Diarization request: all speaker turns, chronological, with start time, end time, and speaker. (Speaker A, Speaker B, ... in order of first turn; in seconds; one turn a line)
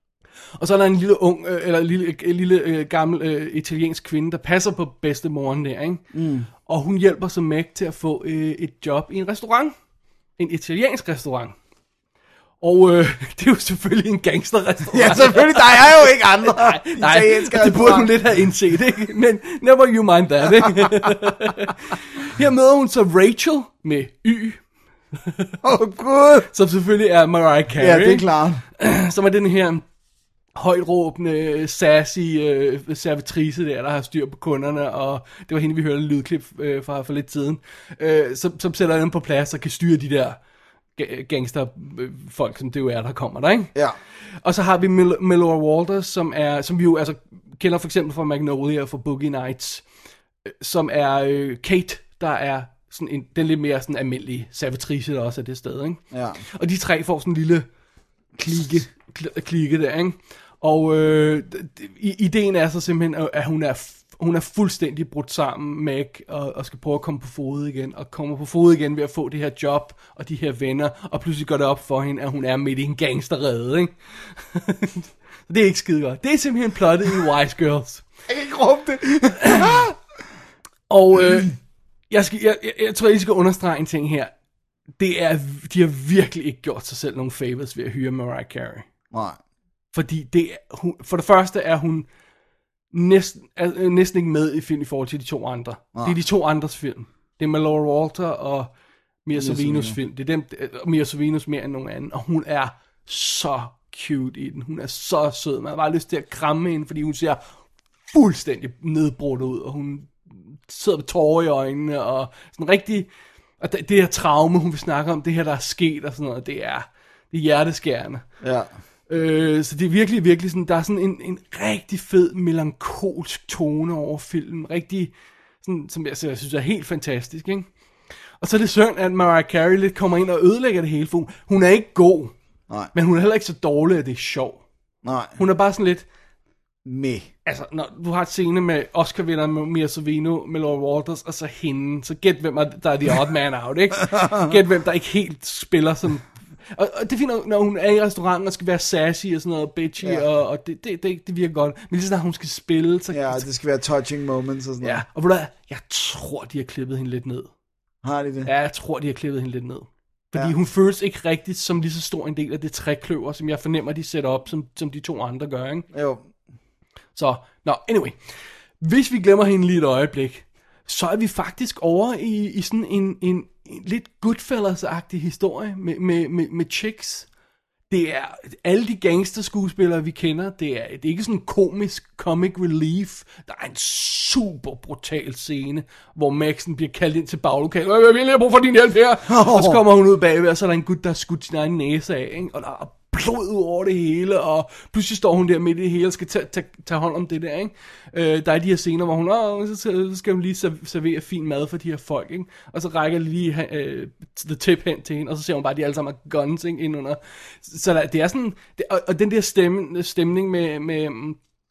Speaker A: 0.6-6.0
Speaker B: 6.1-6.5
Speaker A: 6.7-9.7
Speaker A: 10.4-11.5
Speaker A: 12.6-24.6
Speaker B: 14.9-18.2
Speaker B: 20.6-21.1
Speaker A: 25.2-25.6
Speaker B: 25.6-26.5
Speaker A: 26.5-28.3
Speaker B: 27.8-28.6
Speaker A: 28.8-29.8
Speaker A: 30.6-40.4
Speaker A: 41.0-43.7
Speaker A: 44.4-49.8
Speaker A: 50.6-57.7
Speaker B: 56.1-56.4
Speaker B: 58.4-58.8
Speaker A: 58.4-78.0
Speaker B: 78.3-80.0
Speaker A: 79.4-79.8
Speaker A: 80.9-81.5
Speaker A: 82.1-84.3
Speaker A: 85.0-88.9
Speaker B: 89.1-89.4
Speaker A: 89.9-92.1
Speaker A: 92.9-98.7
Speaker A: 99.3-107.4
Speaker B: 99.3-100.0
Speaker A: 108.1-113.1
Speaker A: 113.6-118.2
Speaker B: 118.4-118.7
Speaker A: 119.1-127.7
Speaker A: 128.4-132.3
Speaker A: 132.9-134.6
Speaker B: 135.0-135.4
Speaker A: 135.4-136.1
Speaker B: 136.8-137.3
Speaker A: 137.4-153.5
Speaker B: 144.1-144.5
Speaker B: 153.1-155.0
Speaker A: 154.8-157.5
Speaker B: 158.0-158.5
Speaker A: 158.4-165.9
Speaker B: 165.9-166.2
Speaker A: 167.2-168.2
Speaker A: 168.8-177.3
Speaker A: 177.9-211.4
Speaker B: 189.3-189.8